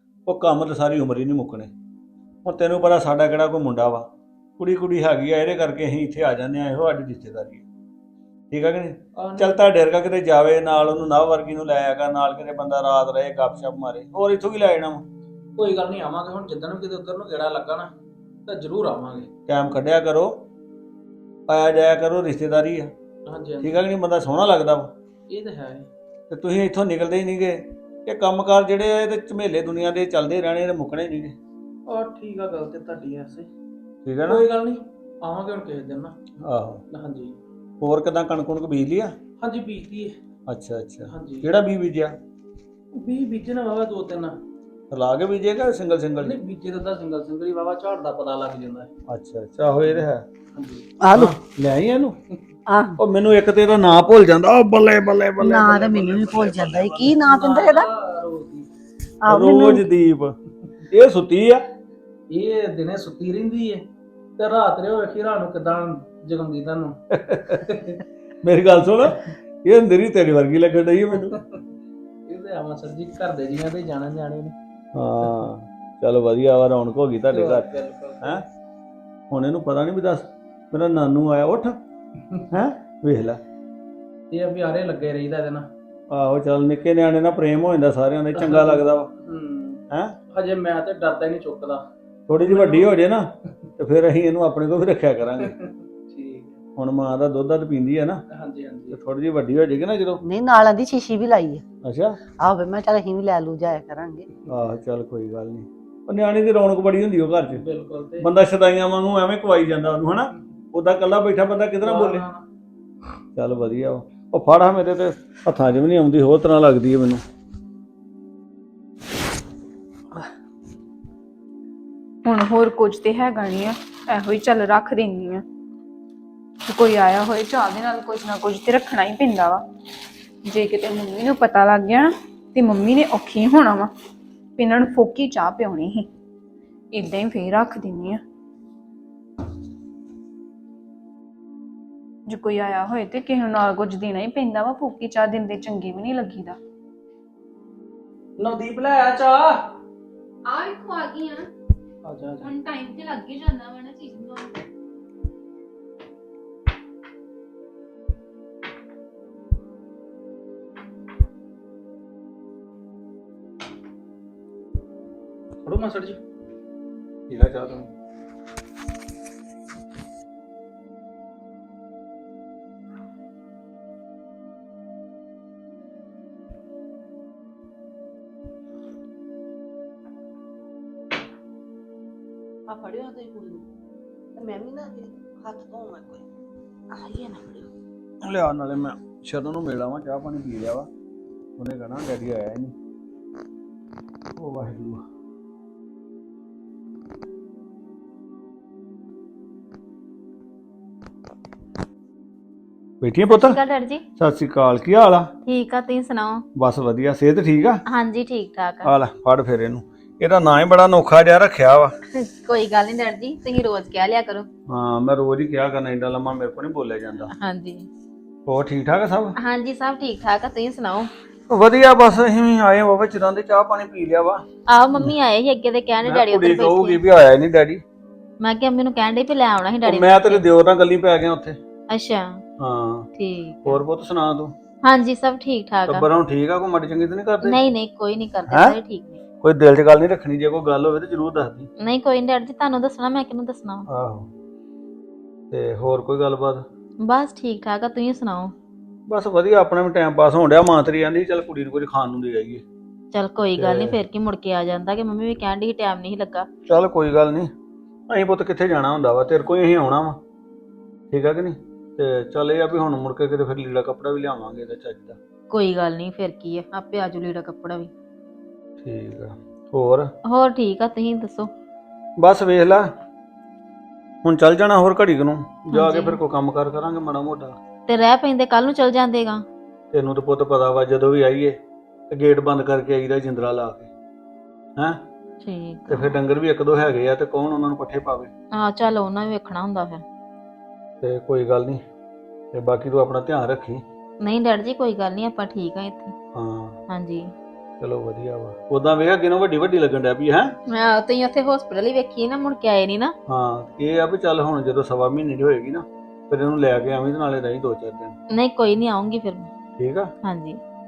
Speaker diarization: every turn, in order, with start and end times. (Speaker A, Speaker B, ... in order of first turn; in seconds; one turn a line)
Speaker A: 0.3-1.7
Speaker A: 2.4-4.1
Speaker A: 4.6-7.6
Speaker A: 8.5-15.0
Speaker B: 9.2-9.6
Speaker B: 15.6-17.9
Speaker B: 18.5-19.3
Speaker A: 19.5-20.4
Speaker A: 21.5-22.9
Speaker B: 23.2-23.9
Speaker A: 23.6-24.9
Speaker B: 25.3-25.9
Speaker A: 26.3-31.3
Speaker B: 31.9-33.5
Speaker A: 34.0-34.4
Speaker B: 34.2-36.1
Speaker A: 36.4-36.8
Speaker B: 36.9-37.3
Speaker A: 37.8-39.1
Speaker B: 39.4-40.1
Speaker A: 40.5-42.2
Speaker B: 41.1-41.5
Speaker B: 42.9-44.4
Speaker A: 44.9-46.4
Speaker B: 46.2-48.9
Speaker A: 49.1-50.2
Speaker B: 49.8-50.8
Speaker C: 51.0-51.3
Speaker A: 51.1-52.1
Speaker C: 52.7-53.0
Speaker A: 53.0-57.0
Speaker C: 55.4-57.9
Speaker B: 57.0-58.7
Speaker C: 59.2-59.9
Speaker A: 59.3-60.3
Speaker A: 60.9-61.6
Speaker B: 62.3-63.8
Speaker B: 64.4-67.0
Speaker A: 67.2-67.6
Speaker B: 67.6-68.0
Speaker A: 68.4-71.3
Speaker B: 72.3-74.5
Speaker A: 74.9-78.4
Speaker B: 77.3-78.4
Speaker A: 79.3-81.8
Speaker A: 82.5-83.4
Speaker B: 84.3-85.7
Speaker A: 86.1-89.1
Speaker B: 88.3-91.8
Speaker A: 89.9-90.1
Speaker A: 92.3-93.3
Speaker B: 92.4-92.9
Speaker A: 93.8-95.5
Speaker B: 95.4-96.6
Speaker A: 96.8-98.2
Speaker B: 98.3-99.0
Speaker A: 98.9-100.2
Speaker C: 100.2-101.6
Speaker A: 101.8-102.2
Speaker C: 102.4-104.2
Speaker A: 104.5-107.6
Speaker B: 107.5-108.3
Speaker A: 108.2-112.2
Speaker B: 111.8-112.4
Speaker A: 113.3-117.2
Speaker D: 122.2-125.4
Speaker D: 126.6-129.6
Speaker D: 130.4-133.9
Speaker D: 134.6-136.1
Speaker D: 136.9-138.2
Speaker D: 142.3-146.6
Speaker B: 148.4-149.7
Speaker D: 150.4-151.5
Speaker B: 152.0-152.5
Speaker D: 152.4-154.5
Speaker B: 165.6-166.2
Speaker A: 167.3-167.9
Speaker C: 182.7-183.6
Speaker C: 184.4-186.2
Speaker C: 186.9-187.7
Speaker A: 188.2-190.9
Speaker A: 191.6-192.7
Speaker A: 194.3-195.0
Speaker A: 203.0-203.6
Speaker E: 203.3-204.0
Speaker A: 204.2-205.3
Speaker E: 205.4-206.4
Speaker A: 206.6-207.8
Speaker E: 207.9-208.9
Speaker A: 208.8-211.9
Speaker E: 212.1-214.5
Speaker A: 214.7-217.3
Speaker E: 217.3-217.9
Speaker A: 218.4-219.3
Speaker E: 219.4-221.1
Speaker A: 221.5-224.4
Speaker E: 224.7-227.0
Speaker A: 226.0-227.8
Speaker E: 228.4-230.5
Speaker A: 229.8-231.6
Speaker E: 231.9-232.4
Speaker A: 232.6-233.1
Speaker E: 233.2-233.8
Speaker A: 233.6-234.5
Speaker E: 234.8-236.1
Speaker A: 235.9-237.6
Speaker E: 237.4-239.2
Speaker A: 238.5-238.8
Speaker A: 239.4-241.7
Speaker E: 241.8-243.9
Speaker A: 243.9-244.3
Speaker A: 245.5-246.6
Speaker E: 247.0-248.5
Speaker A: 249.1-252.6
Speaker E: 253.1-256.5
Speaker A: 253.6-254.0
Speaker A: 256.7-257.5
Speaker A: 258.1-260.2
Speaker A: 261.1-265.2
Speaker E: 265.5-267.9
Speaker A: 268.8-270.1
Speaker E: 270.2-271.5
Speaker A: 272.2-272.8
Speaker A: 274.2-277.6
Speaker E: 275.7-276.2
Speaker E: 277.9-279.4
Speaker A: 279.9-281.6
Speaker A: 282.1-283.9
Speaker A: 284.8-285.0
Speaker E: 285.4-286.1
Speaker A: 285.9-288.3
Speaker E: 288.5-290.0
Speaker A: 291.0-291.8
Speaker A: 292.5-293.8
Speaker E: 294.2-296.1
Speaker A: 296.3-296.8
Speaker E: 296.9-297.3
Speaker A: 297.8-300.5
Speaker E: 300.7-303.1
Speaker A: 303.3-308.1
Speaker E: 308.3-309.5
Speaker A: 309.8-310.1
Speaker E: 310.2-310.6